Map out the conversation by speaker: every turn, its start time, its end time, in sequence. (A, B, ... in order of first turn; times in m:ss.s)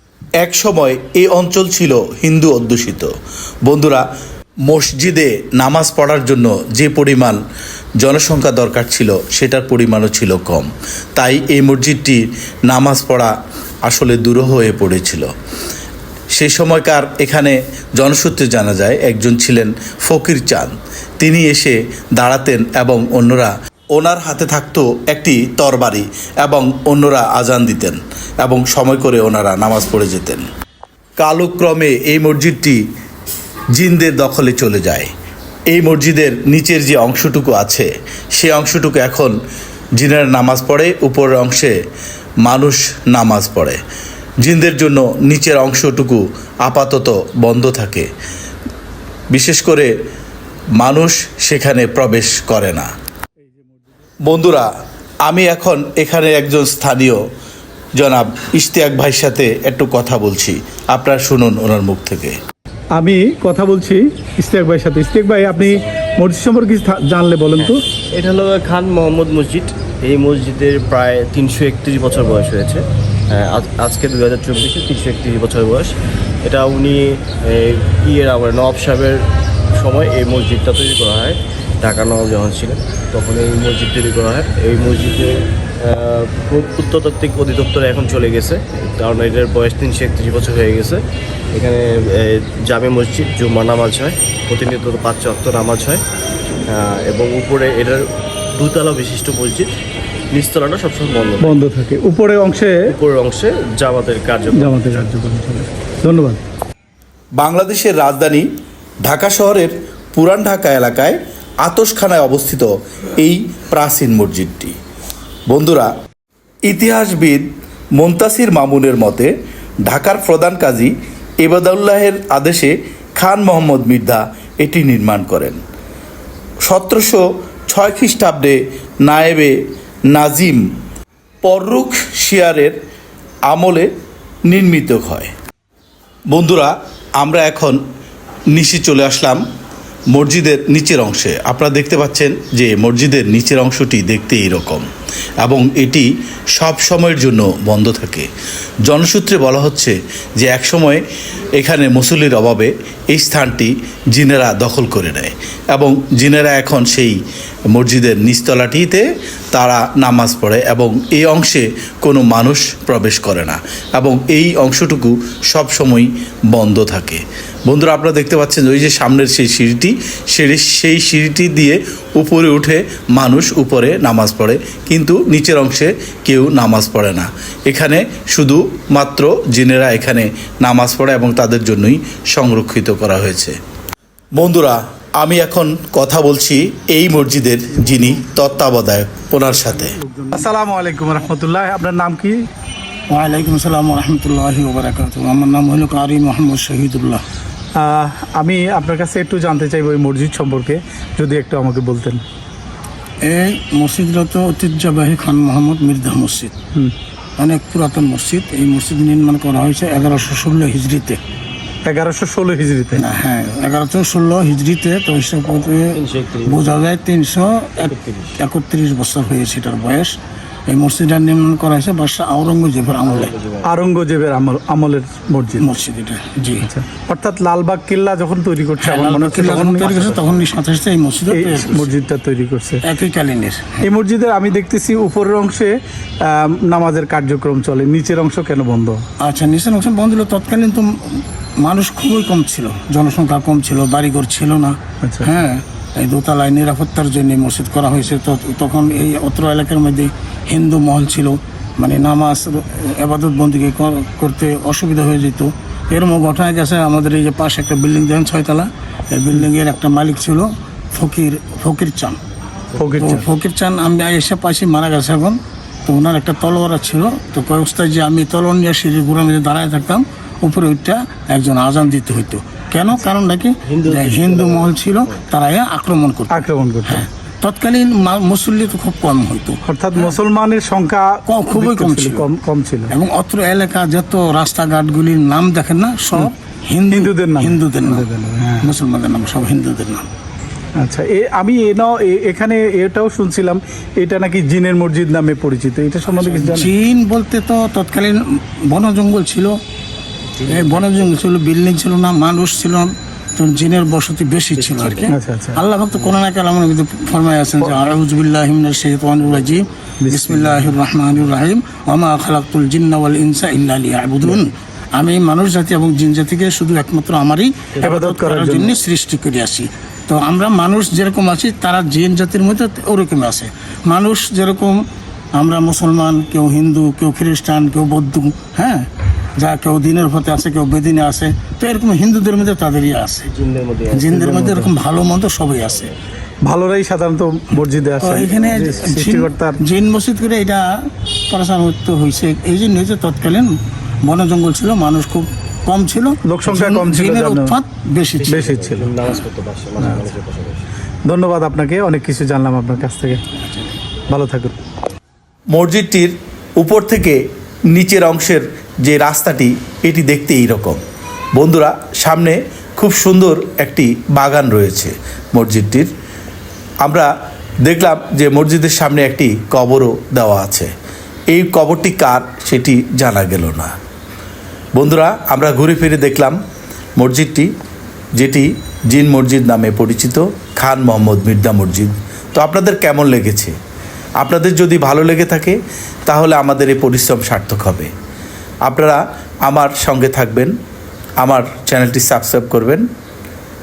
0:00.4-0:03.1 A
0:03.6-0:04.1 A
0:04.6-0:07.4 A
0:08.0-0:13.3 A
0:13.8-0:15.3 A
0:16.3-0:30.4 A
0:31.2-0:32.8 A
0:33.7-0:35.1 A
0:35.7-0:39.4 A
0:40.0-0:41.8 A
0:42.4-0:43.8 A
0:44.4-0:48.1 A
0:49.3-0:49.9 A
0:50.8-0:52.9 A
0:54.2-0:54.7 A
0:55.2-0:57.2 A
0:57.9-1:02.4 A
1:03.0-1:07.8 B
1:07.6-1:36.0 C
1:36.6-1:39.7 C
1:40.3-1:41.7 C
1:41.4-1:42.8 B
1:42.9-1:45.0 C
1:44.5-1:46.4 B
1:47.4-1:48.5 A
1:49.0-1:54.7 A
1:55.5-1:55.9 A
1:56.6-1:59.3 A
1:59.8-2:05.6 A
2:06.6-2:10.7 A
2:11.4-2:12.8 A
2:13.5-2:13.9 A
2:14.4-2:15.3 A
2:16.3-2:17.8 A
2:18.5-2:19.4 A
2:20.1-2:24.8 A
2:25.4-2:28.3 A
2:28.8-2:37.2 A
2:37.7-3:03.6 A
3:04.3-3:10.0 A
3:10.0-3:12.3 B
3:13.1-3:17.2 D
3:17.8-3:22.2 B
3:23.2-3:26.5 D
3:27.4-3:31.2 D
3:31.8-3:33.1 B
3:33.0-3:40.2 D
3:35.9-3:36.8 C
3:37.8-3:38.4 C
3:40.7-3:43.3 D
3:43.0-3:43.7 C
3:43.6-3:45.7 B
3:45.6-3:46.7 D
3:46.6-3:50.1 B
3:48.8-3:51.9 D
3:50.0-3:50.3 C
3:51.3-3:52.8 B
3:52.8-3:53.8 D
3:53.8-3:55.7 B
3:56.2-3:59.0 B
3:59.2-4:22.2 D
4:05.0-4:05.3 B
4:22.8-4:23.3 B
4:22.9-4:40.1 D
4:33.7-4:35.2 C
4:36.3-4:37.1 B
4:39.7-4:42.9 B
4:41.2-4:42.3 D
4:42.9-4:50.1 D
4:46.9-4:48.7 B
4:50.8-4:56.7 B
4:56.1-4:59.6 D
5:00.4-5:24.8 D
5:04.6-5:05.1 C
5:05.1-5:05.6 B
5:10.0-5:10.7 B
5:17.8-5:18.8 B
5:25.3-5:33.3 D
5:33.3-5:34.3 C
5:33.9-5:35.9 D
5:34.3-5:34.7 B
5:36.4-5:39.6 B
5:37.6-5:48.4 D
5:46.2-5:47.6 B
5:48.2-5:50.6 C
5:48.2-5:48.9 B
5:51.0-5:53.2 B
5:53.5-5:53.8 D
5:54.1-5:54.5 B
5:55.5-6:00.8 A
6:01.3-6:05.9 A
6:06.8-6:07.1 A
6:07.6-6:10.7 A
6:11.3-6:13.7 A
6:14.7-6:16.4 A
6:17.0-6:17.5 A
6:18.1-6:23.5 A
6:24.2-6:27.9 A
6:28.6-6:30.5 A
6:31.2-6:32.8 A